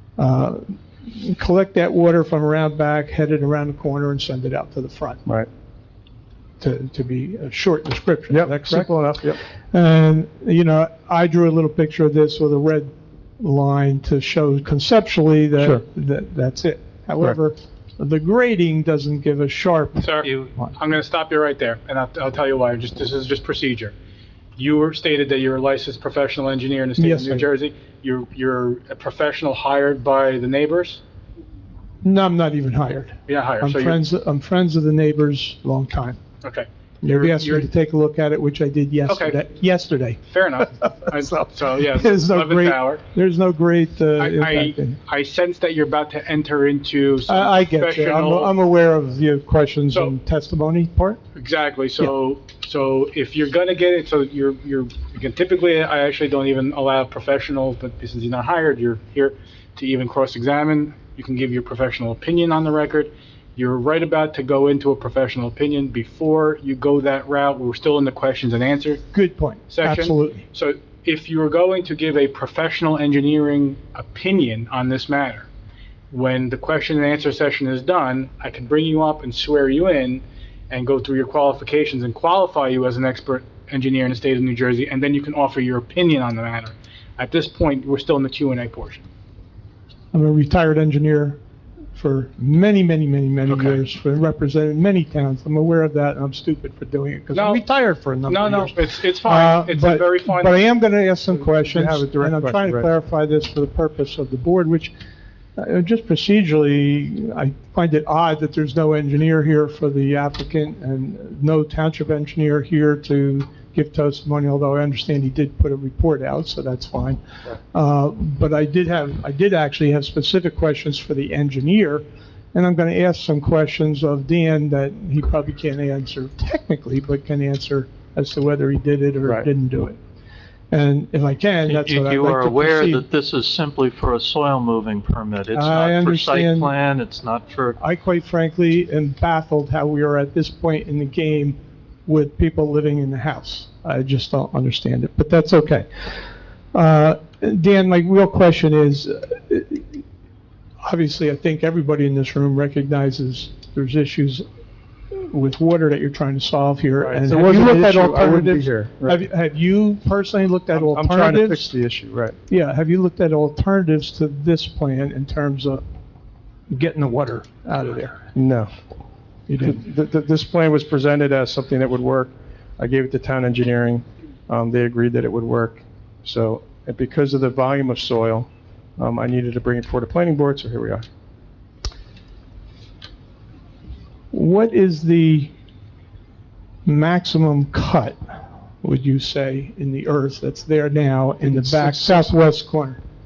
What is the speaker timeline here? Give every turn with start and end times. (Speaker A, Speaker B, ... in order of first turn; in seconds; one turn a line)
Speaker A: 0.2-5.2
Speaker A: 6.6-20.7
Speaker B: 8.3-9.4
Speaker B: 15.6-15.8
Speaker C: 20.0-23.9
Speaker C: 24.6-31.0
Speaker A: 27.0-27.4
Speaker A: 32.0-36.2
Speaker C: 33.3-34.0
Speaker C: 36.4-37.7
Speaker A: 37.0-45.0
Speaker C: 39.1-39.4
Speaker C: 40.3-43.0
Speaker C: 44.2-48.5
Speaker A: 47.3-51.2
Speaker C: 51.3-69.0
Speaker A: 69.1-70.4
Speaker C: 69.7-75.5
Speaker C: 76.1-89.0
Speaker A: 90.1-91.4
Speaker A: 91.9-104.9
Speaker C: 93.5-93.8
Speaker C: 97.3-97.6
Speaker C: 98.2-100.6
Speaker B: 101.3-102.9
Speaker A: 105.5-130.0
Speaker A: 130.7-133.1
Speaker D: 131.7-137.8
Speaker A: 135.5-136.7
Speaker A: 137.8-150.0
Speaker A: 150.8-154.4
Speaker A: 155.1-161.7
Speaker B: 157.0-159.2
Speaker B: 160.7-162.4
Speaker A: 162.5-165.8
Speaker A: 166.7-168.3
Speaker B: 168.3-168.7
Speaker A: 169.5-169.8
Speaker B: 169.6-181.1
Speaker A: 184.3-185.5
Speaker A: 186.8-193.0
Speaker B: 191.4-192.3